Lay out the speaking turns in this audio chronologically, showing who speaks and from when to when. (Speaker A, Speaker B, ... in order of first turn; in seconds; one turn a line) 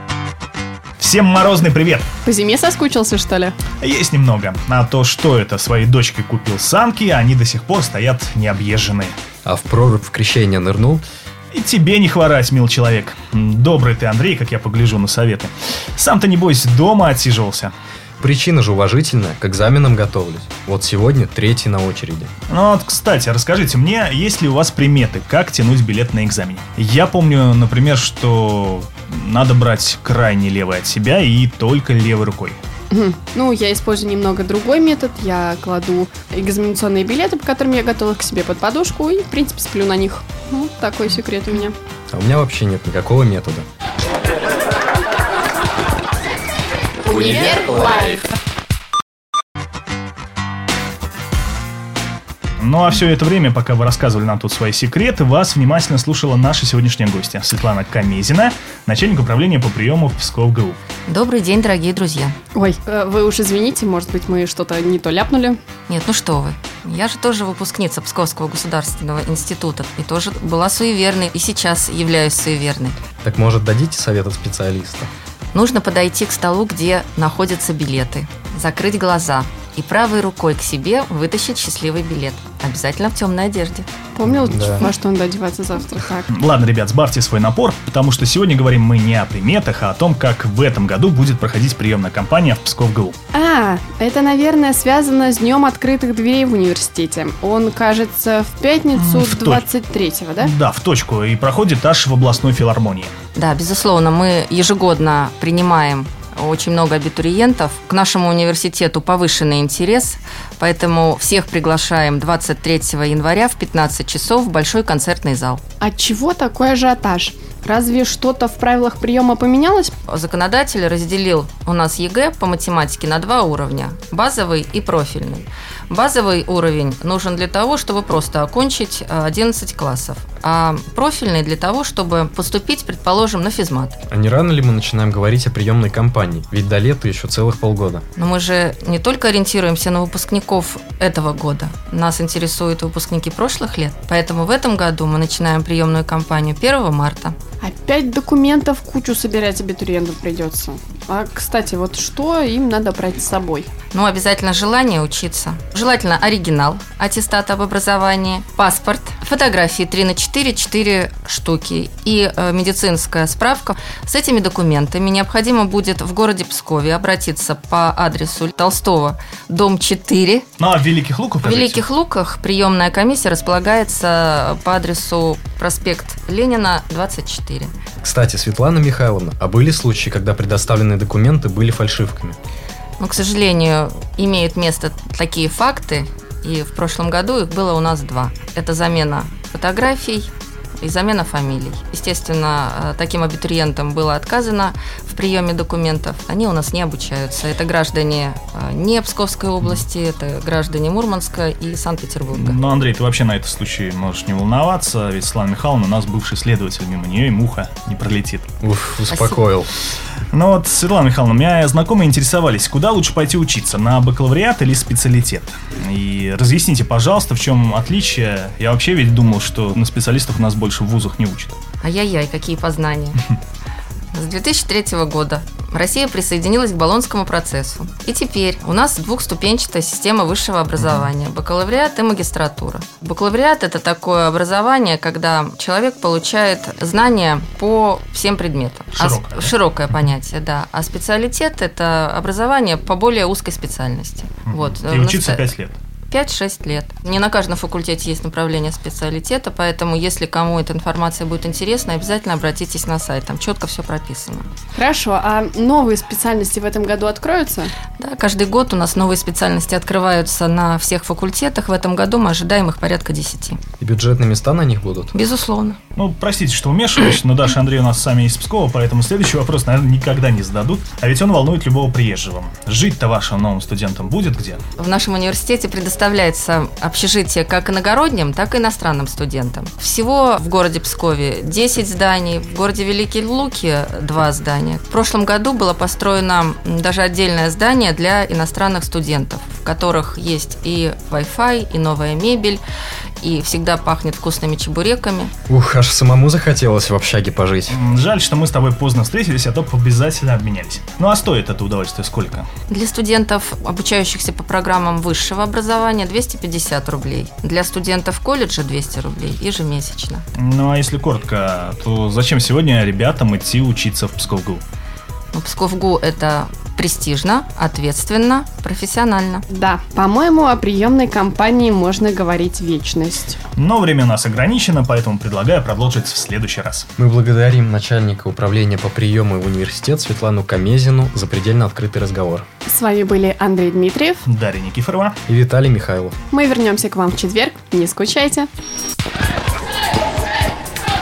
Speaker A: 1.0-2.1
Speaker B: 2.2-3.6
Speaker A: 3.8-9.2
Speaker C: 9.4-11.0
Speaker A: 11.5-17.7
Speaker C: 18.2-22.3
Speaker A: 22.5-32.6
Speaker B: 32.9-41.8
Speaker C: 42.1-43.7
Speaker B: 47.0-48.2
Speaker A: 52.6-60.8
Speaker D: 61.1-62.4
Speaker B: 62.5-65.6
Speaker D: 65.9-73.0
Speaker C: 73.2-75.1
Speaker D: 75.5-83.9
Speaker B: 84.1-86.3
Speaker C: 84.2-84.9
Speaker A: 86.3-93.1
Speaker B: 93.3-100.5
Speaker A: 99.0-99.6
Speaker A: 100.4-103.1
Speaker D: 103.3-115.6
Speaker B: 115.8-119.9
Speaker D: 120.0-134.0
Speaker C: 134.1-138.0
Speaker D: 138.2-147.3
Speaker B: 147.6-153.7
Speaker D: 153.9-170.4
Speaker A: 170.6-171.8
Speaker D: 171.4-177.7
Speaker C: 178.0-182.4
Speaker D: 183.0-190.3
Speaker D: 190.8-202.6
Speaker A: 202.3-208.5
Speaker C: 208.6-209.7
Speaker D: 209.1-209.4
Speaker A: 210.3-221.5
Speaker D: 221.8-223.2
Speaker D: 224.1-245.4
Speaker A: 230.8-231.1
Speaker A: 238.9-239.5
Speaker A: 244.5-245.8
Speaker D: 246.1-254.5
Speaker B: 254.7-257.7
Speaker D: 258.0-263.6
Speaker C: 263.8-265.1
Speaker D: 265.1-265.8
Speaker A: 266.0-274.6
Speaker D: 274.8-292.6
Speaker D: 293.2-295.3
Speaker C: 295.5-297.8
Speaker A: 297.7-302.5
Speaker D: 302.7-310.2
Speaker A: 310.4-314.6
Speaker D: 315.3-319.4
Speaker B: 319.5-323.4
Speaker A: 323.6-326.9
Speaker C: 327.0-332.5
Speaker B: 332.7-334.2
Speaker A: 334.2-335.2
Speaker C: 335.3-336.1
Speaker B: 336.3-338.5